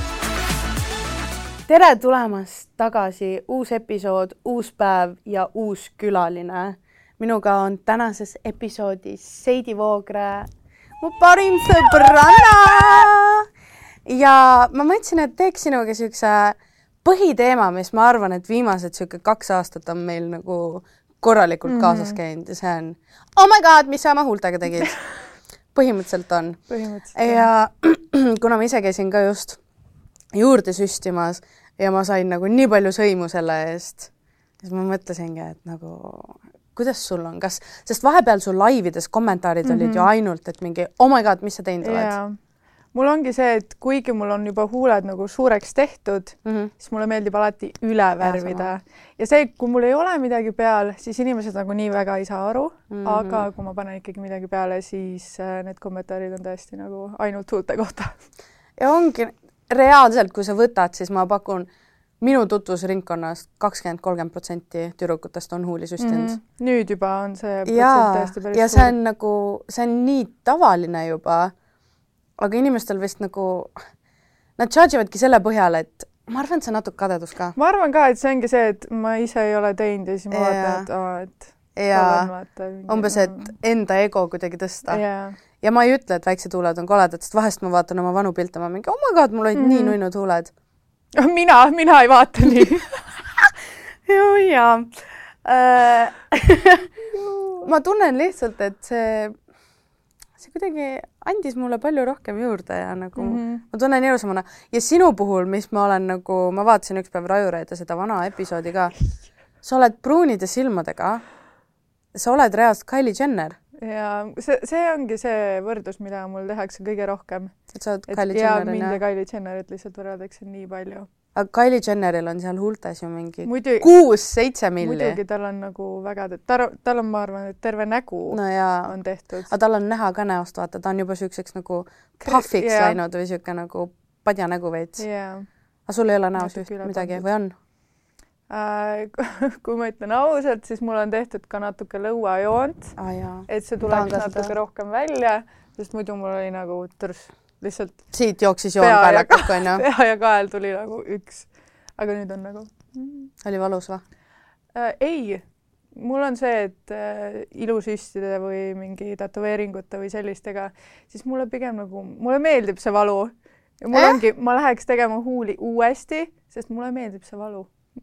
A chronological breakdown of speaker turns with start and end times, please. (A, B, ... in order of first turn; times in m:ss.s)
0:01.7-0:13.5 A
0:14.0-0:25.1 A
0:21.6-0:22.2 B
0:25.7-0:29.6 A
0:26.7-0:27.4 B
0:30.3-0:34.1 A
0:34.6-0:42.1 A
0:39.6-0:40.1 B
0:41.8-0:42.4 B
0:42.9-0:58.1 B
0:46.4-0:46.7 A
0:48.2-0:48.7 A
0:52.9-0:53.4 A
0:58.8-1:01.7 A
1:02.2-1:06.4 A
1:06.0-1:08.9 B
1:07.6-1:11.5 A
1:12.4-1:13.8 A
1:14.6-1:17.6 A
1:17.6-1:23.5 B
1:20.3-1:20.9 A
1:21.8-1:22.3 A
1:22.9-1:25.0 A
1:24.9-1:25.4 B
1:25.6-1:30.5 A
1:29.6-1:30.0 B
1:31.2-1:32.9 B
1:34.0-1:36.9 A
1:37.2-1:37.7 B
1:37.6-1:39.3 A
1:40.4-1:48.9 A
1:43.2-1:43.6 B
1:49.6-1:51.2 A
1:52.1-1:53.6 A
1:53.8-2:01.1 B
1:57.7-1:59.0 A
2:01.3-2:05.2 A
2:03.4-2:03.9 B
2:04.8-2:09.5 B
2:08.3-2:15.1 A
2:12.2-2:13.0 B
2:15.0-2:15.5 B
2:15.9-2:17.5 A
2:16.4-2:17.3 B
2:18.5-2:23.0 B
2:23.0-2:24.5 A
2:23.5-2:28.1 B
2:28.1-2:29.8 A
2:28.8-2:33.3 B
2:33.4-2:34.0 A
2:34.7-2:47.7 B
2:43.9-2:44.2 A